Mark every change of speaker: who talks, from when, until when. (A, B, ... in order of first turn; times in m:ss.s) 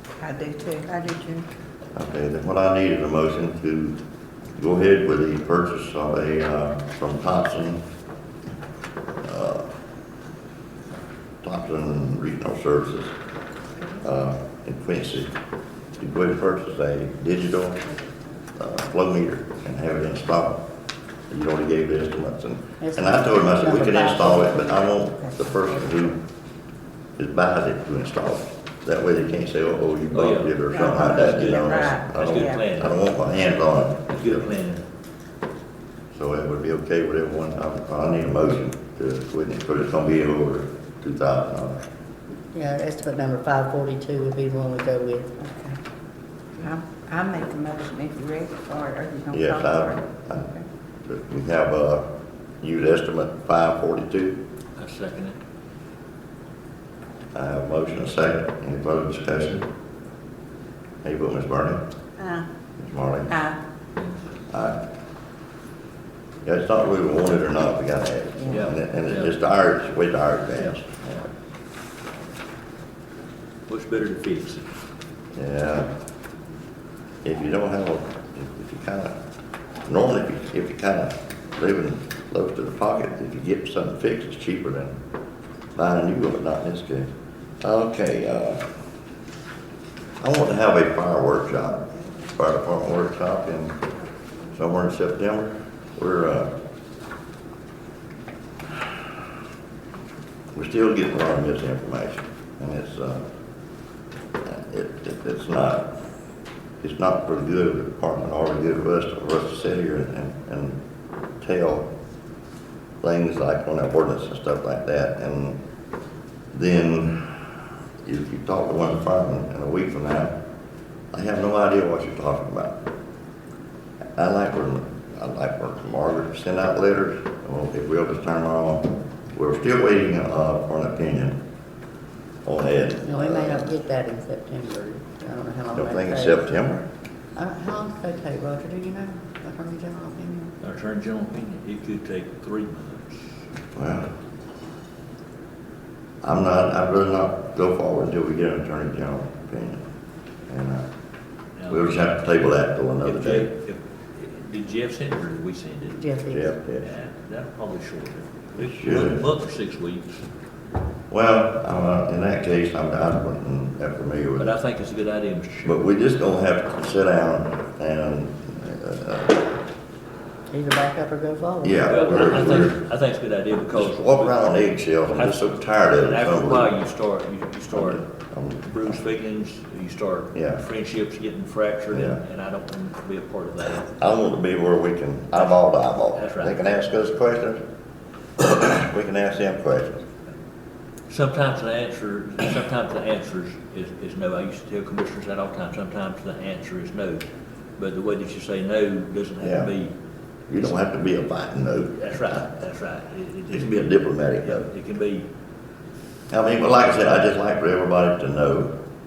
0:00.2-0:01.5 A
0:02.0-0:04.0 B
0:04.6-0:07.8 B
0:09.2-0:09.7 B
0:11.4-0:13.2 B
0:14.0-0:15.3 B
0:16.0-0:17.9 B
0:18.6-0:20.6 B
0:21.3-0:26.2 B
0:22.8-0:24.7 C
0:25.2-0:25.6 A
0:27.2-0:34.5 B
0:30.1-0:32.9 D
0:30.7-0:32.5 A
0:34.1-0:34.8 D
0:36.2-0:41.8 B
0:42.5-0:45.5 C
0:45.5-0:45.8 A
0:46.6-0:50.6 A
0:49.3-0:50.5 B
0:51.1-0:52.0 B
0:52.6-0:54.4 B
0:54.8-0:55.4 D
0:57.3-0:59.7 B
1:01.0-1:01.8 B
1:02.2-1:02.5 A
1:02.8-1:03.4 B
1:03.3-1:03.6 A
1:04.5-1:04.8 B
1:06.4-1:11.1 B
1:08.5-1:09.3 D
1:10.6-1:11.2 D
1:13.7-1:14.7 D
1:15.4-1:15.9 B
1:17.2-1:19.1 B
1:19.9-1:25.0 B
1:25.8-1:27.1 B
1:27.6-1:28.6 B
1:30.2-1:33.8 B
1:34.5-1:36.5 B
1:40.5-1:43.2 B
1:44.4-1:45.9 B
1:46.8-1:50.8 B
1:51.4-1:51.9 B
1:53.0-1:55.6 B
1:56.5-1:57.5 B
1:58.0-2:00.3 B
2:01.1-2:02.8 B
2:04.2-2:11.4 B
2:12.4-2:13.7 B
2:13.0-2:16.4 C
2:15.7-2:16.8 B
2:17.4-2:20.5 C
2:20.6-2:23.3 D
2:23.8-2:24.1 B
2:26.2-2:29.8 B
2:30.5-2:30.9 B
2:31.6-2:32.0 D
2:31.7-2:33.5 B
2:33.0-2:36.0 D
2:36.0-2:36.4 C
2:36.3-2:36.9 B
2:36.8-2:40.2 D
2:38.6-2:39.2 B
2:41.1-2:44.5 B
2:44.4-2:45.8 D
2:45.6-2:49.5 B
2:50.5-2:52.4 C
2:51.6-2:52.8 B
2:51.8-2:54.5 D
2:53.7-2:56.7 B
2:55.1-2:58.0 D
2:57.7-2:59.0 B
2:58.6-3:03.9 D
3:00.3-3:00.6 B
3:01.9-3:02.2 B
3:03.9-3:07.6 B
3:06.2-3:06.6 D
3:08.4-3:10.0 B
3:11.1-3:17.2 D
3:17.8-3:19.9 D
3:19.4-3:19.7 B
3:20.5-3:22.2 B
3:22.0-3:25.3 D
3:23.5-3:24.7 B
3:26.3-3:28.7 B